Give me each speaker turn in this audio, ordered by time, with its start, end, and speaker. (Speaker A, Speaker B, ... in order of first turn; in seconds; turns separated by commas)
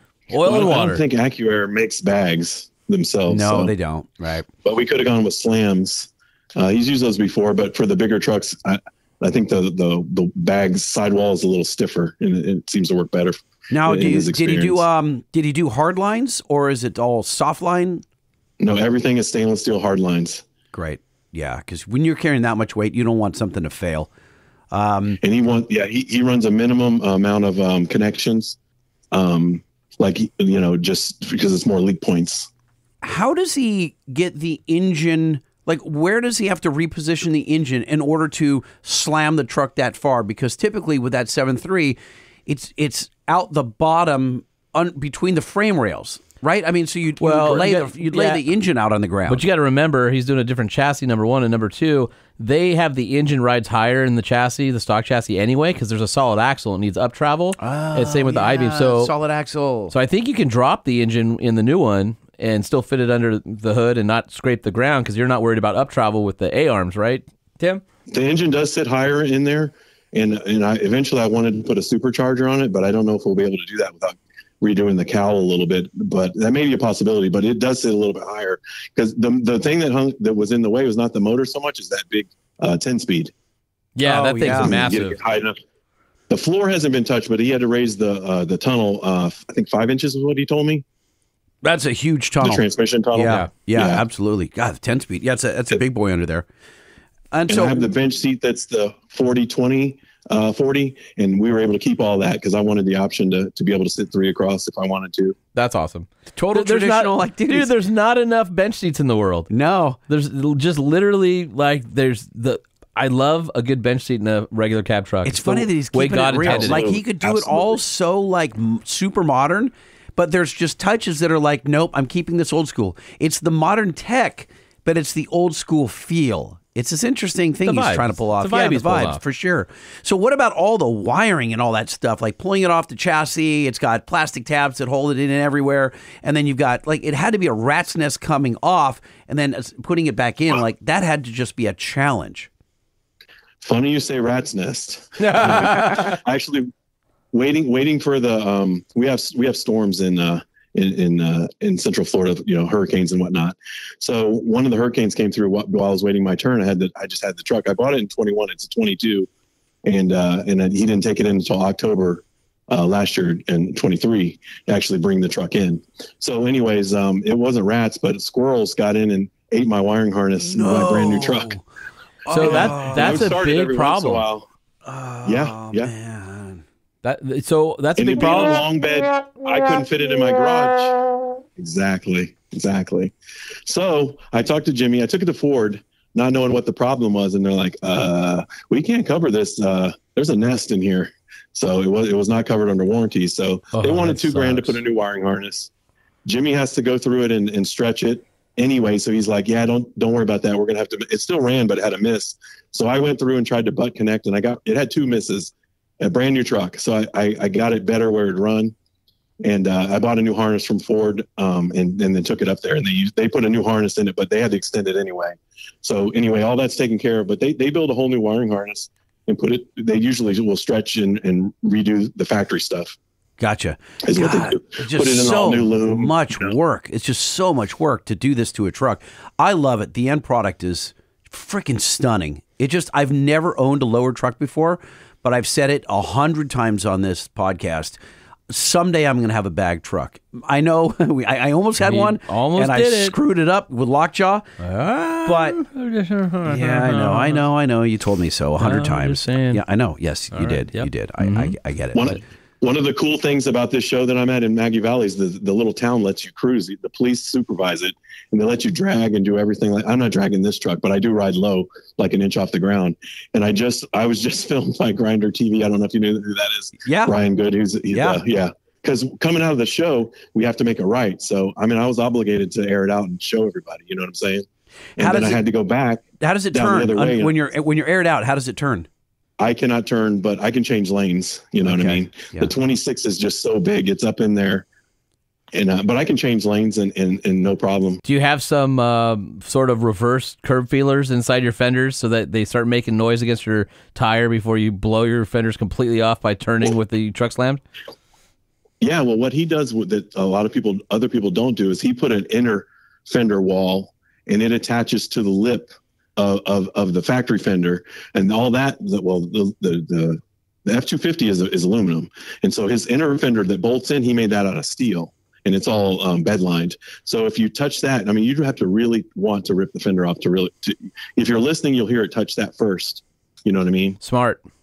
Speaker A: 0.3-1.0, Speaker B: 0.4-3.7, Speaker C: 3.3-4.4, Speaker B: 4.6-14.8, Speaker C: 13.7-18.0, Speaker B: 18.6-20.4, Speaker C: 20.7-24.1, Speaker C: 24.7-25.2, Speaker B: 25.2-28.6, Speaker B: 29.1-32.5, Speaker C: 33.0-49.4, Speaker A: 47.2-48.4, Speaker A: 49.3-59.1, Speaker C: 57.6-59.9, Speaker A: 59.9-67.8, Speaker B: 68.1-83.3, Speaker A: 84.0-85.2, Speaker C: 84.0-84.8, Speaker B: 84.5-85.6, Speaker B: 86.3-90.8, Speaker C: 91.6-96.5, Speaker B: 92.4-94.0, Speaker C: 97.3-97.9, Speaker B: 97.5-105.3, Speaker A: 105.5-109.5, Speaker C: 106.3-107.7, Speaker C: 109.5-110.0, Speaker A: 110.1-116.9, Speaker C: 115.2-142.5, Speaker B: 116.4-117.8, Speaker A: 127.6-129.2, Speaker B: 143.6-146.7, Speaker A: 145.2-146.1, Speaker B: 147.3-159.3, Speaker B: 159.8-171.5, Speaker C: 170.4-171.6, Speaker C: 172.2-173.2, Speaker A: 172.3-174.2, Speaker B: 172.3-174.5, Speaker C: 174.8-176.6, Speaker B: 175.2-175.9, Speaker A: 177.0-178.6, Speaker B: 178.0-180.9, Speaker B: 181.6-183.1, Speaker B: 183.6-195.7, Speaker A: 193.7-194.8, Speaker B: 196.2-208.7, Speaker B: 209.4-223.0, Speaker C: 223.4-238.0, Speaker B: 224.0-226.5, Speaker C: 238.5-244.4, Speaker A: 241.8-243.2, Speaker A: 244.6-247.4, Speaker C: 245.2-245.6, Speaker C: 246.4-252.2, Speaker A: 248.6-249.6, Speaker A: 250.3-251.5, Speaker B: 251.9-274.4, Speaker C: 266.8-267.1, Speaker C: 267.9-268.2, Speaker B: 275.0-277.3, Speaker C: 275.0-275.4, Speaker C: 276.2-278.9, Speaker B: 279.4-284.6, Speaker C: 281.6-282.5, Speaker B: 285.5-288.0, Speaker A: 288.0-297.6, Speaker B: 298.8-324.0, Speaker A: 324.0-324.4